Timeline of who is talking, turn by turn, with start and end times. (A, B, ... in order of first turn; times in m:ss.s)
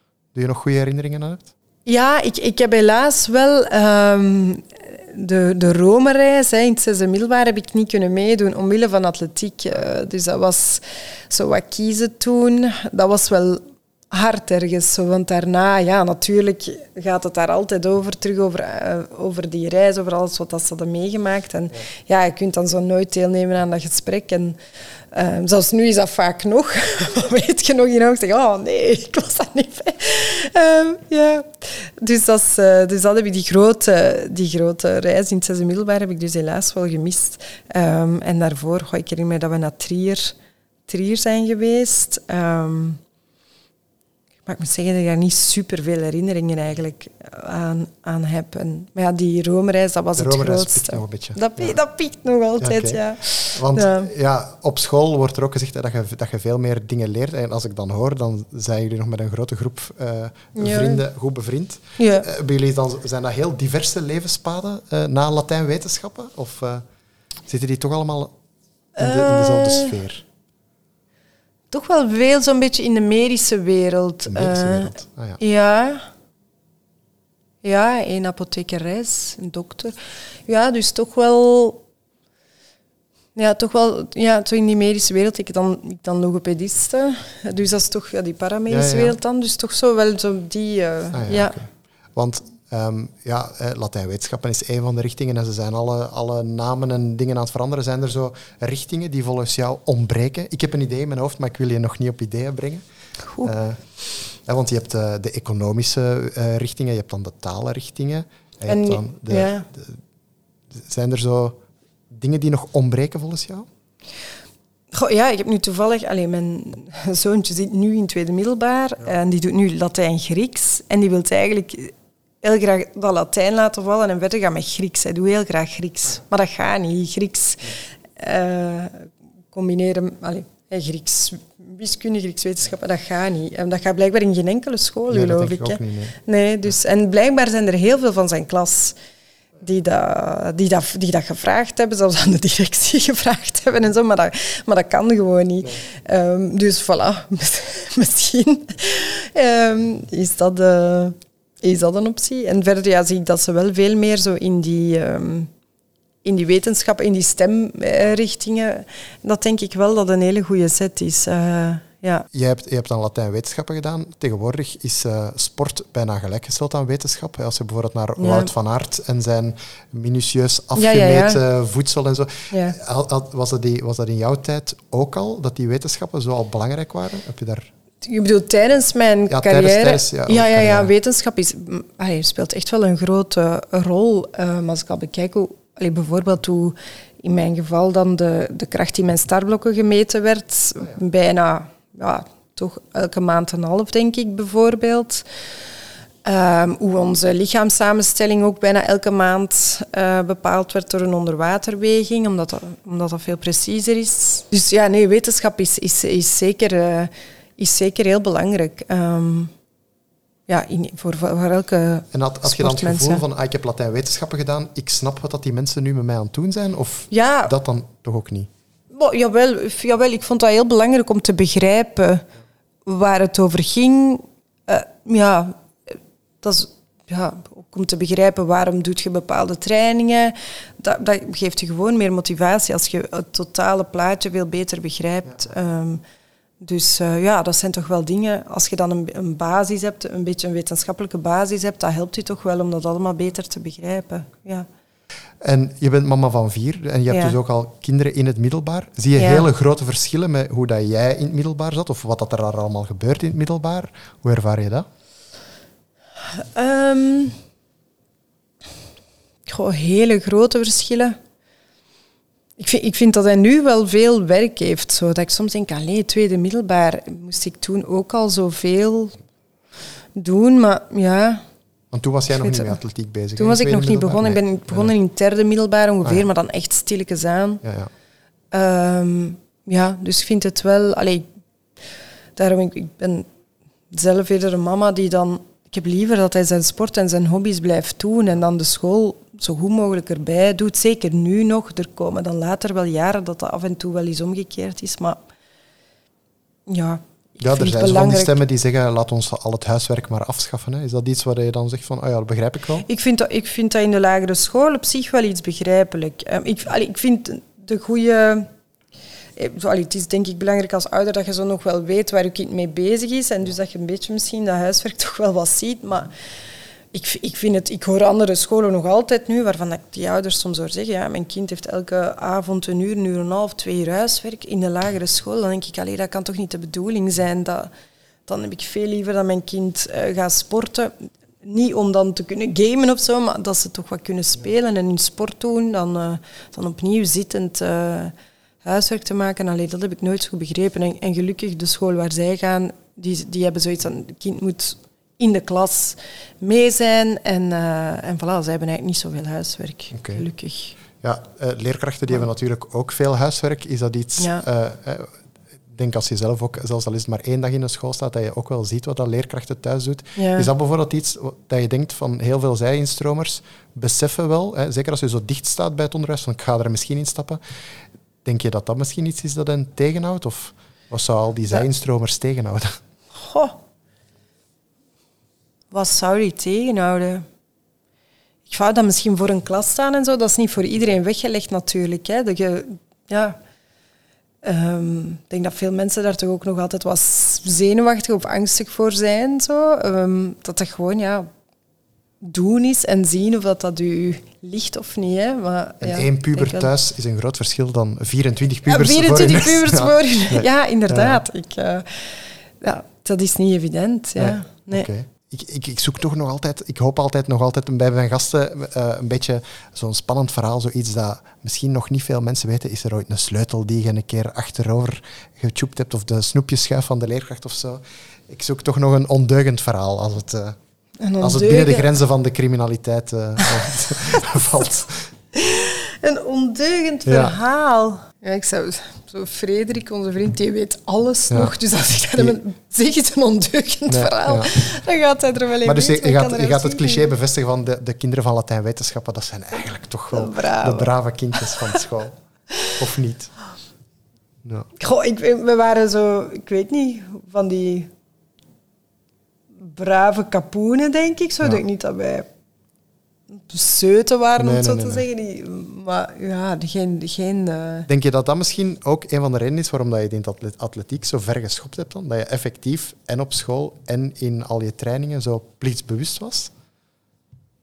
0:00.3-0:01.5 A
0:01.9-0:24.6 B
0:25.1-0:40.4 B
0:40.9-0:43.0 B
0:44.5-0:54.1 B
0:50.2-0:51.8 A
0:52.6-0:53.0 A
0:53.5-1:06.8 A
1:00.6-1:01.0 B
1:02.0-1:02.3 B
1:07.5-1:08.3 A
1:09.0-1:10.0 B
1:09.0-1:10.2 A
1:11.7-1:16.1 B
1:14.3-1:15.4 A
1:17.6-1:20.0 B
1:20.5-1:21.8 B
1:23.4-1:31.6 B
1:28.7-1:29.2 A
1:31.1-1:42.8 A
1:43.4-1:50.0 A
1:48.7-1:49.7 B
1:50.7-1:51.6 A
1:52.1-1:53.7 A
1:54.9-2:19.0 B
2:15.1-2:16.2 A
2:19.6-2:35.5 B
2:36.2-2:42.3 B
2:42.3-2:57.7 A
2:48.2-2:48.5 B
2:50.8-2:51.4 B
2:58.0-3:15.2 B
2:59.3-3:00.9 A
3:16.2-3:29.5 B
3:30.5-3:33.2 B
3:32.1-3:38.5 A
3:37.1-3:37.6 B
3:38.9-3:42.2 B
3:42.8-3:56.0 B
3:56.6-4:04.7 B
4:05.4-4:14.9 A
4:07.1-4:07.4 B
4:09.2-4:09.5 B
4:16.3-4:17.4 B
4:19.5-4:21.2 B
4:22.6-4:29.2 B
4:30.2-4:31.4 B
4:31.9-4:34.9 A
4:32.4-4:32.7 B
4:33.4-4:37.6 B
4:37.6-4:37.9 A
4:38.5-4:41.3 B
4:42.4-4:43.3 B
4:43.9-4:55.2 B
4:56.7-4:58.4 B
4:57.4-5:02.9 A
5:02.8-5:08.5 B
5:09.4-5:16.1 B
5:16.9-5:27.7 B
5:28.3-5:50.8 B
5:49.9-5:50.2 A
5:51.0-5:55.1 A
5:54.2-5:54.4 B
5:55.7-6:07.4 A
6:00.2-6:00.5 B
6:08.2-6:12.8 A
6:13.2-6:13.6 B
6:15.7-6:17.2 B
6:18.5-6:23.4 B
6:24.4-6:31.3 B
6:32.2-6:36.7 B
6:35.8-6:41.2 A
6:38.7-6:44.9 B
6:44.2-7:00.6 A
7:01.0-7:01.9 B
7:01.2-7:05.1 A
7:05.3-7:17.1 B
7:07.1-7:07.4 A
7:13.9-7:14.5 A
7:15.6-7:22.2 A
7:20.1-7:21.8 B
7:22.8-7:23.3 A
7:24.4-7:24.7 A
7:24.8-7:27.9 B
7:29.6-7:32.3 B
7:33.3-7:37.9 B
7:34.4-7:35.0 A
7:37.9-7:46.5 A